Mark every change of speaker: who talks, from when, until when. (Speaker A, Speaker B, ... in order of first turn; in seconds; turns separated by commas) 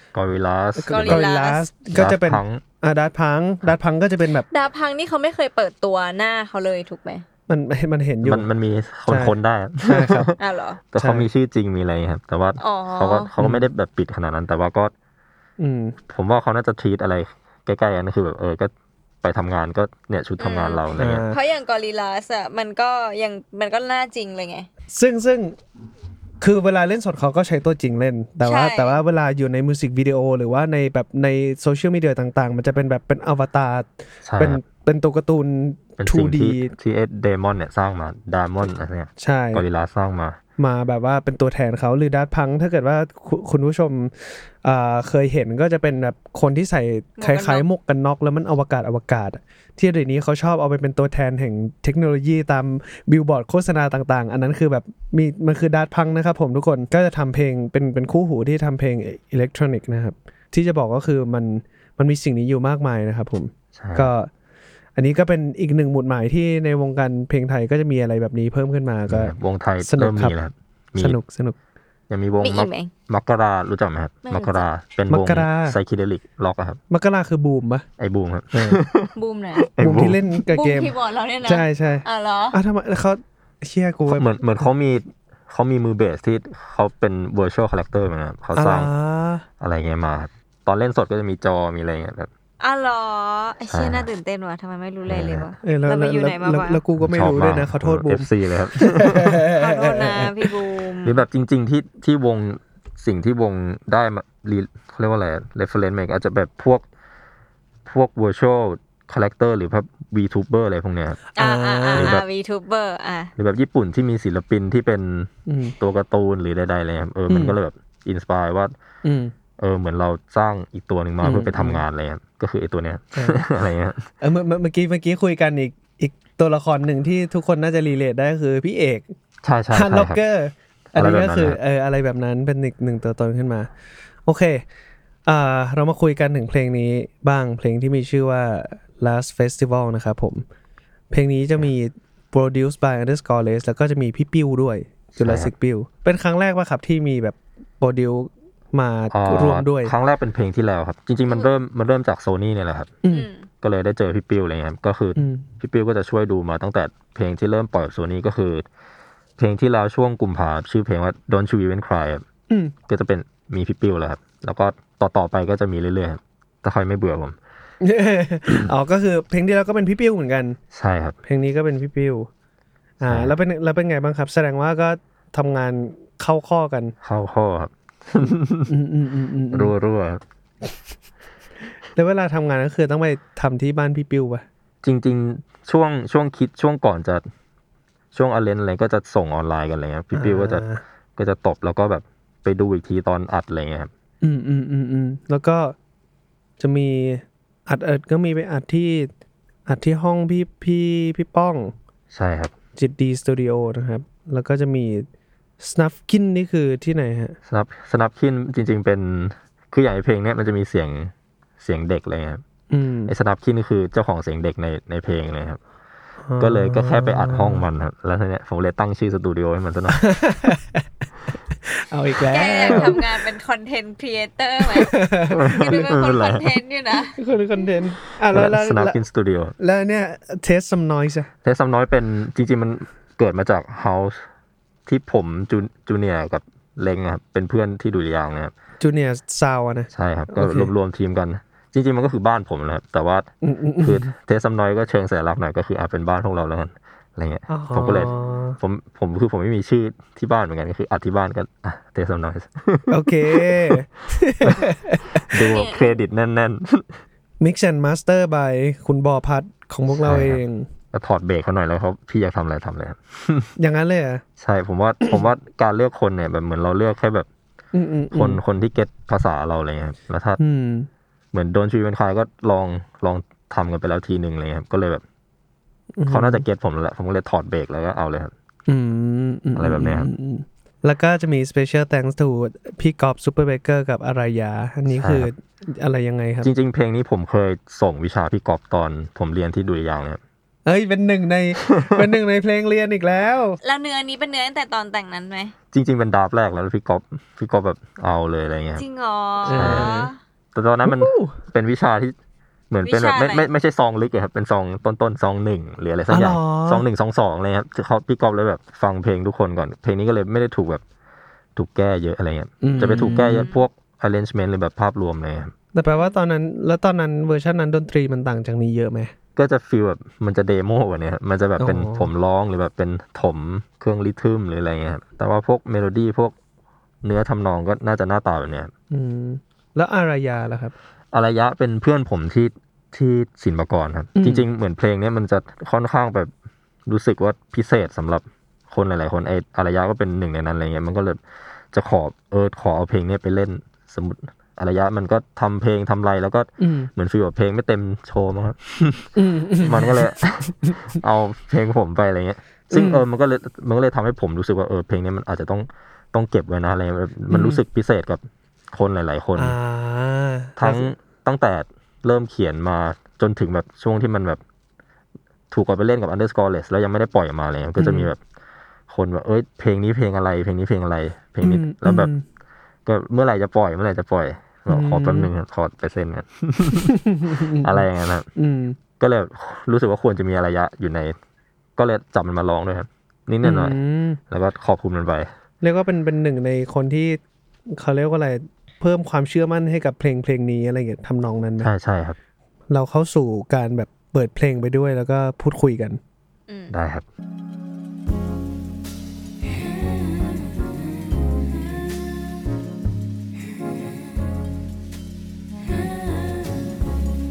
Speaker A: 0.1-1.3, Speaker B: 0.8-4.5, Speaker C: 0.9-1.7, Speaker A: 1.9-2.6, Speaker C: 4.5-7.2, Speaker B: 7.5-8.5, Speaker A: 8.2-10.4, Speaker B: 9.1-10.3, Speaker C: 10.4-10.8, Speaker A: 10.9-14.9, Speaker B: 11.0-11.3, Speaker C: 12.6-13.3, Speaker B: 13.4-13.7, Speaker B: 15.6-16.0, Speaker A: 16.1-18.7, Speaker A: 19.2-21.2, Speaker C: 20.4-24.7, Speaker B: 21.0-21.4, Speaker B: 24.9-25.6, Speaker B: 26.4-36.7, Speaker C: 28.4-29.0, Speaker A: 34.2-34.6, Speaker A: 36.0-40.4, Speaker B: 39.2-39.6, Speaker B: 40.6-64.3, Speaker C: 47.2-47.6, Speaker A: 63.8-64.1, Speaker B: 65.0-70.4, Speaker A: 69.1-71.2, Speaker B: 71.0-71.6, Speaker A: 72.1-76.8, Speaker C: 72.4-72.9, Speaker C: 74.2-74.7, Speaker B: 75.1-75.8, Speaker B: 76.9-77.8, Speaker A: 78.0-80.2, Speaker B: 78.5-78.8, Speaker C: 79.2-79.7, Speaker B: 79.8-80.9, Speaker C: 80.5-82.6, Speaker B: 81.4-84.6, Speaker A: 84.1-88.9, Speaker B: 88.5-89.5, Speaker A: 89.6-92.3, Speaker C: 92.6-96.8, Speaker A: 93.7-94.1, Speaker A: 95.1-95.5, Speaker B: 95.6-100.5, Speaker A: 97.0-99.5, Speaker C: 99.5-101.2, Speaker A: 101.0-106.8, Speaker A: 107.9-111.2, Speaker B: 111.3-112.2, Speaker C: 111.4-113.3, Speaker A: 112.0-112.2, Speaker A: 113.4-118.7, Speaker B: 115.5-115.8, Speaker B: 117.3-117.5, Speaker B: 119.0-119.3, Speaker A: 119.6-124.0, Speaker B: 121.2-121.8, Speaker B: 123.2-123.5, Speaker B: 124.2-129.1, Speaker A: 129.4-130.2, Speaker B: 129.7-133.7, Speaker A: 130.9-131.6, Speaker B: 134.2-134.6, Speaker B: 135.3-140.4, Speaker B: 141.1-149.9, Speaker A: 145.2-145.5, Speaker A: 149.1-152.9, Speaker C: 153.1-153.5, Speaker A: 153.6-158.7, Speaker B: 155.2-155.5, Speaker A: 159.4-162.2, Speaker B: 162.5-162.8, Speaker A: 162.9-167.4, Speaker B: 167.8-170.6, Speaker A: 170.7-171.2, Speaker B: 171.2-172.3, Speaker B: 173.0-176.9, Speaker A: 173.1-173.3, Speaker A: 177.0-178.7, Speaker B: 178.7-179.7, Speaker A: 179.5-180.2, Speaker B: 181.9-184.4, Speaker A: 184.8-187.2, Speaker A: 188.1-190.7, Speaker B: 190.1-190.8, Speaker A: 191.2-193.9, Speaker B: 194.2-195.8, Speaker B: 196.6-199.1, Speaker B: 199.7-201.7, Speaker A: 202.1-202.5, Speaker B: 202.8-205.1, Speaker B: 205.6-207.4, Speaker A: 207.5-212.4, Speaker B: 212.7-213.1, Speaker A: 213.1-215.6, Speaker B: 216.2-217.7, Speaker A: 216.4-220.1, Speaker B: 219.9-220.8, Speaker B: 221.7-223.0, Speaker C: 222.3-227.2, Speaker A: 222.7-222.9, Speaker B: 224.6-225.9, Speaker A: 225.3-226.5, Speaker B: 227.1-229.0, Speaker A: 228.3-229.6, Speaker B: 229.6-231.3, Speaker A: 231.4-234.2, Speaker A: 234.9-238.5, Speaker B: 238.8-240.7, Speaker A: 239.9-253.8, Speaker B: 243.4-244.1, Speaker B: 247.5-248.6, Speaker B: 252.9-255.4, Speaker A: 255.2-257.0, Speaker C: 255.4-256.0, Speaker B: 257.4-260.7, Speaker A: 260.0-260.4, Speaker A: 260.9-263.5, Speaker B: 263.6-264.2, Speaker A: 264.4-267.3, Speaker B: 267.7-268.4, Speaker A: 268.1-270.4, Speaker B: 270.4-270.9, Speaker A: 271.3-275.0, Speaker B: 276.0-276.4, Speaker A: 276.1-278.3, Speaker B: 278.7-286.5, Speaker A: 279.6-280.1, Speaker A: 284.9-285.3, Speaker A: 286.4-290.2, Speaker B: 290.7-293.6, Speaker C: 293.6-295.5, Speaker A: 295.7-298.9, Speaker C: 298.8-300.1, Speaker B: 299.5-300.1, Speaker A: 299.5-299.9, Speaker A: 300.6-302.1, Speaker B: 300.9-301.4, Speaker A: 302.7-310.8, Speaker C: 302.9-303.5, Speaker B: 306.1-306.9, Speaker A: 311.6-315.5, Speaker B: 312.6-313.5, Speaker C: 313.2-313.6, Speaker B: 315.7-319.1, Speaker A: 319.4-326.4, Speaker B: 321.6-322.1, Speaker A: 327.0-328.7, Speaker B: 328.9-330.8, Speaker A: 331.1-336.3, Speaker B: 334.1-334.5, Speaker A: 336.9-341.2, Speaker A: 341.7-359.6, Speaker B: 346.6-346.9, Speaker B: 349.2-350.8, Speaker B: 352.7-353.0, Speaker B: 357.3-357.6, Speaker B: 359.4-360.9, Speaker A: 360.6-364.4, Speaker A: 365.5-368.2, Speaker B: 367.8-368.1, Speaker A: 368.9-372.1, Speaker B: 371.4-372.2, Speaker A: 372.9-376.9, Speaker B: 374.7-375.3, Speaker B: 376.9-377.9, Speaker A: 377.5-378.3, Speaker B: 378.4-378.8, Speaker A: 379.0-381.2, Speaker A: 381.8-383.8, Speaker B: 383.4-384.2, Speaker A: 384.3-385.3, Speaker B: 385.6-387.2, Speaker B: 387.7-391.7, Speaker A: 391.6-392.2, Speaker B: 392.7-396.0, Speaker C: 396.5-396.7, Speaker A: 396.7-397.1